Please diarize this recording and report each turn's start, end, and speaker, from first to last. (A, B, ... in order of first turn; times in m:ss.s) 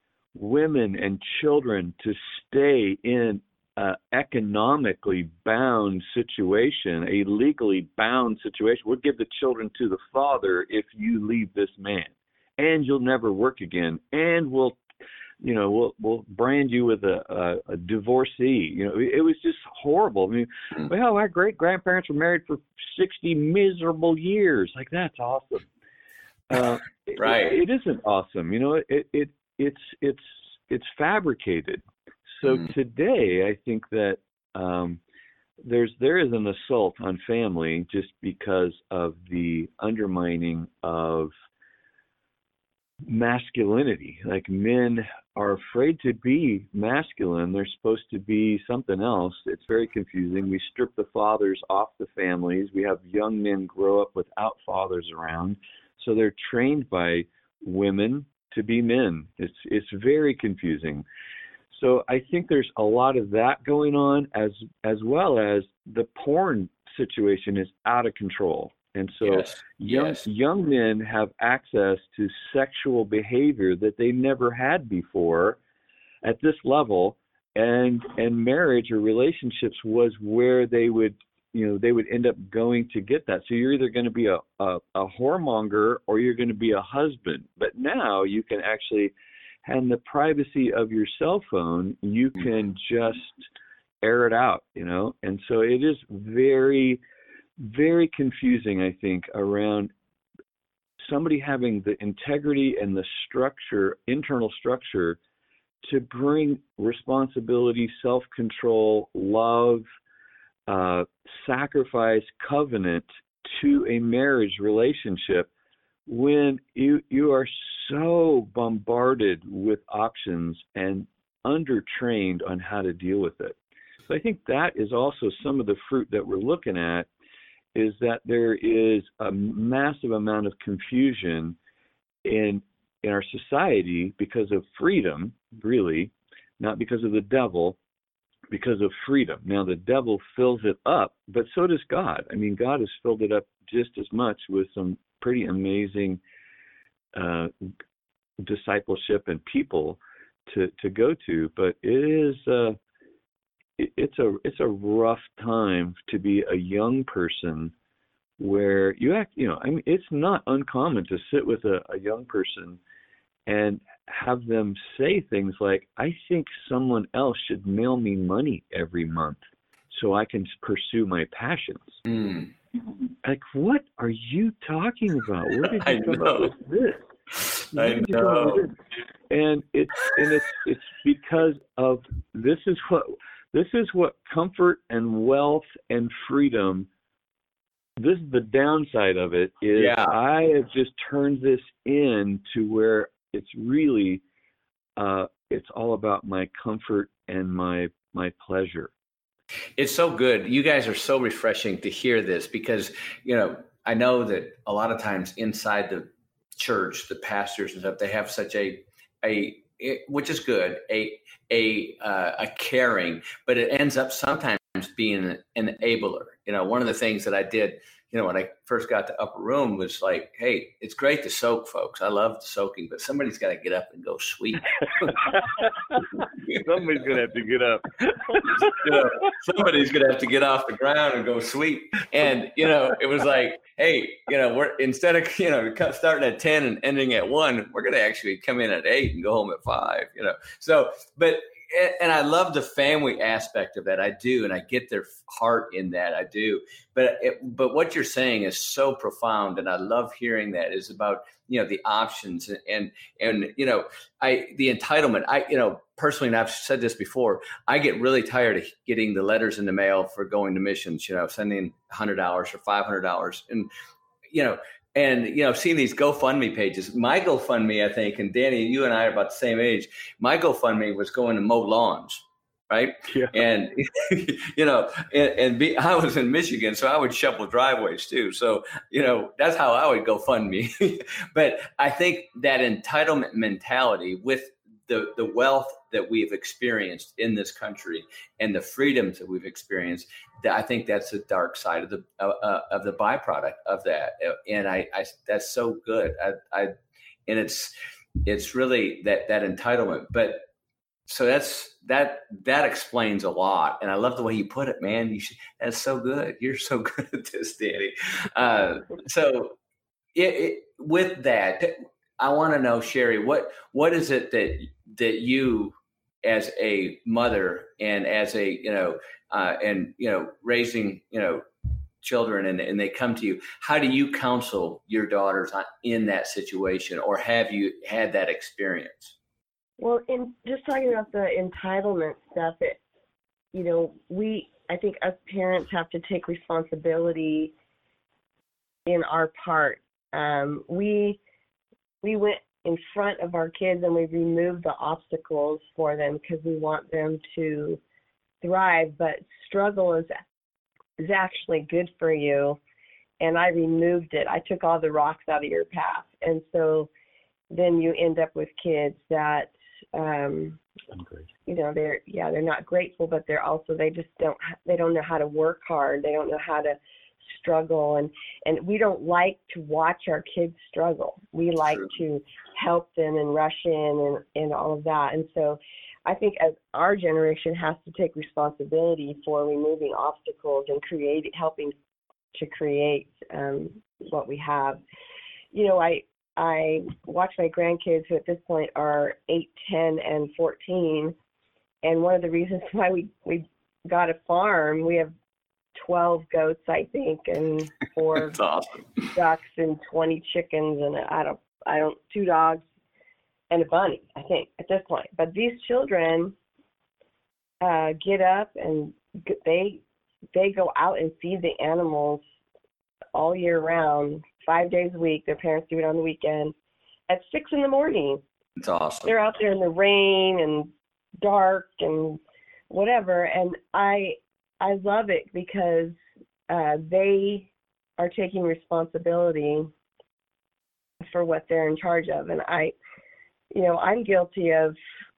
0:00.3-0:14.8 A
0:15.4-0:25.6 A
0:26.5-0:35.0 A
0:27.2-0:27.6 B
0:35.6-0:41.3 A
0:43.0-1:01.0 A
1:01.7-1:15.6 A
1:09.2-1:10.2 B
1:16.2-1:29.1 A
1:29.6-1:33.4 A
1:34.0-1:37.0 A
1:37.6-1:39.9 A
1:41.0-1:45.2 A
1:45.8-1:49.8 A
1:50.7-1:55.5 A
1:56.1-2:03.6 A
2:04.1-2:07.1 A
2:07.7-2:11.6 A
2:12.2-2:17.8 A
2:18.5-2:26.2 A
2:27.1-2:27.5 A
2:28.4-2:32.8 A
2:33.8-2:37.7 A
2:38.4-2:42.8 A
2:43.5-2:49.4 A
2:49.9-2:52.0 A
2:52.0-2:52.5 B
2:53.2-2:57.0 A
2:55.7-2:56.5 B
2:57.4-2:58.6 B
2:57.7-2:58.7 A
2:59.3-3:06.9 A
3:08.0-3:14.2 A
3:09.8-3:10.1 B
3:15.0-3:18.9 A
3:19.8-3:45.3 B
3:45.0-3:46.0 A
3:46.6-3:49.1 A
3:48.6-4:23.7 B
4:24.3-4:56.7 B
4:33.1-4:33.4 A
4:57.3-4:57.7 B
4:58.2-5:00.4 B
5:01.1-5:09.6 B
5:10.1-5:21.4 B
5:22.0-5:29.1 B
5:29.8-5:32.8 C
5:33.5-5:37.5 C
5:38.8-5:41.2 C
5:42.0-5:47.8 C
5:48.4-5:50.2 C
5:51.0-5:52.6 C
5:53.2-5:56.9 C
5:57.5-6:00.6 C
6:00.9-6:01.3 A
6:01.4-6:21.7 C
6:22.3-6:24.8 C
6:25.5-6:31.1 C
6:31.8-6:35.1 C
6:35.8-6:38.4 C
6:38.3-6:39.1 B
6:39.1-6:42.6 C
6:43.5-6:46.3 C
6:47.6-6:49.8 C
6:50.3-6:52.2 C
6:53.1-6:56.5 C
6:57.1-6:58.2 C
6:58.6-6:59.1 B
6:59.0-7:06.0 C
7:06.5-7:09.7 C
7:11.1-7:12.7 C
7:13.5-7:14.8 C